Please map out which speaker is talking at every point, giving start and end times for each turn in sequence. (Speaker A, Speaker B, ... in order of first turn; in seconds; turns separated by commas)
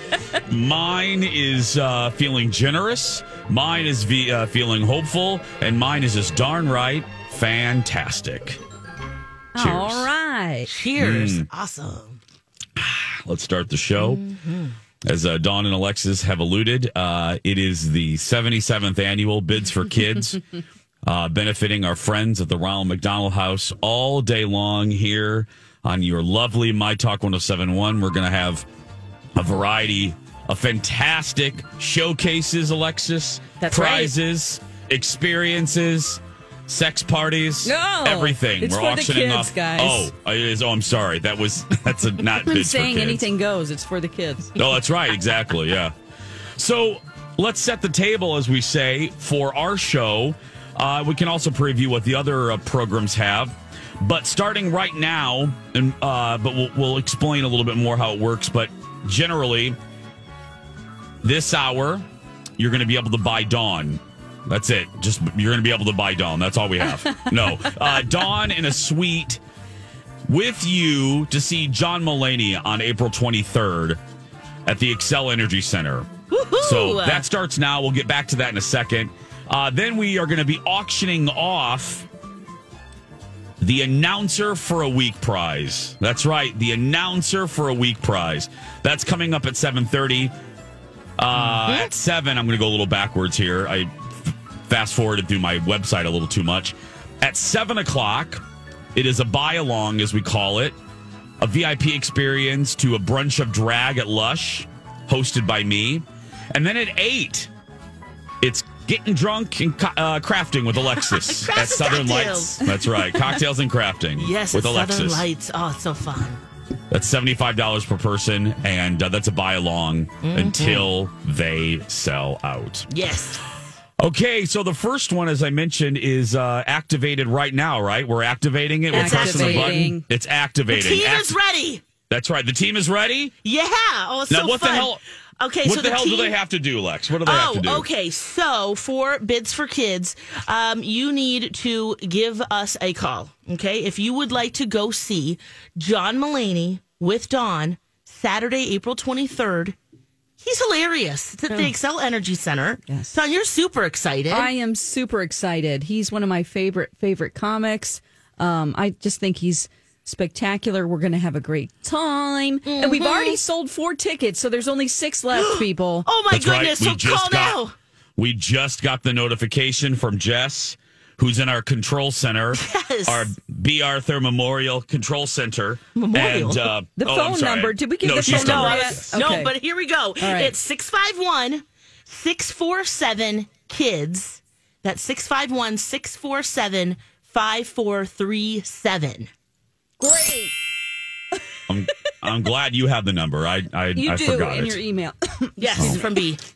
Speaker A: 0.4-8.6, Speaker B: 9.5-10.7, Speaker A: 9.6-10.1, Speaker C: 10.7-12.2, Speaker A: 11.0-11.5, Speaker A: 12.8-14.2, Speaker C: 13.9-14.7, Speaker A: 15.0-20.4, Speaker A: 21.0-28.6, Speaker A: 29.3-43.3, Speaker C: 33.6-34.1, Speaker B: 37.6-40.1, Speaker B: 42.5-44.5, Speaker A: 44.6-45.9, Speaker A: 46.6-59.8, Speaker A: 61.2-62.0, Speaker A: 62.6-69.4, Speaker A: 70.3-74.0, Speaker A: 74.7-76.1, Speaker C: 76.3-77.2, Speaker A: 76.6-82.1, Speaker A: 83.6-90.3, Speaker A: 91.2-98.4, Speaker C: 91.6-91.9, Speaker A: 98.9-100.8, Speaker A: 101.4-107.5, Speaker A: 108.4-115.2, Speaker C: 111.1-112.7, Speaker C: 114.2-116.4, Speaker A: 116.9-122.9, Speaker C: 120.2-120.9, Speaker C: 122.9-123.4, Speaker A: 124.0-131.4, Speaker C: 128.9-129.8, Speaker B: 128.9-130.0, Speaker C: 130.7-131.8, Speaker A: 132.1-133.3, Speaker C: 133.4-136.4, Speaker A: 134.3-135.0, Speaker A: 135.6-137.9, Speaker C: 137.2-149.8, Speaker C: 150.4-154.5, Speaker B: 152.9-153.1, Speaker B: 154.3-166.1, Speaker C: 162.7-163.4, Speaker C: 165.3-167.7, Speaker A: 166.3-167.6, Speaker A: 168.2-179.2, Speaker C: 172.6-173.3, Speaker C: 175.9-176.7, Speaker B: 177.0-179.5, Speaker C: 178.2-189.3, Speaker B: 180.2-180.5, Speaker B: 190.0-190.5, Speaker A: 191.7-194.8, Speaker B: 193.9-196.0, Speaker C: 195.6-196.4, Speaker A: 195.7-196.0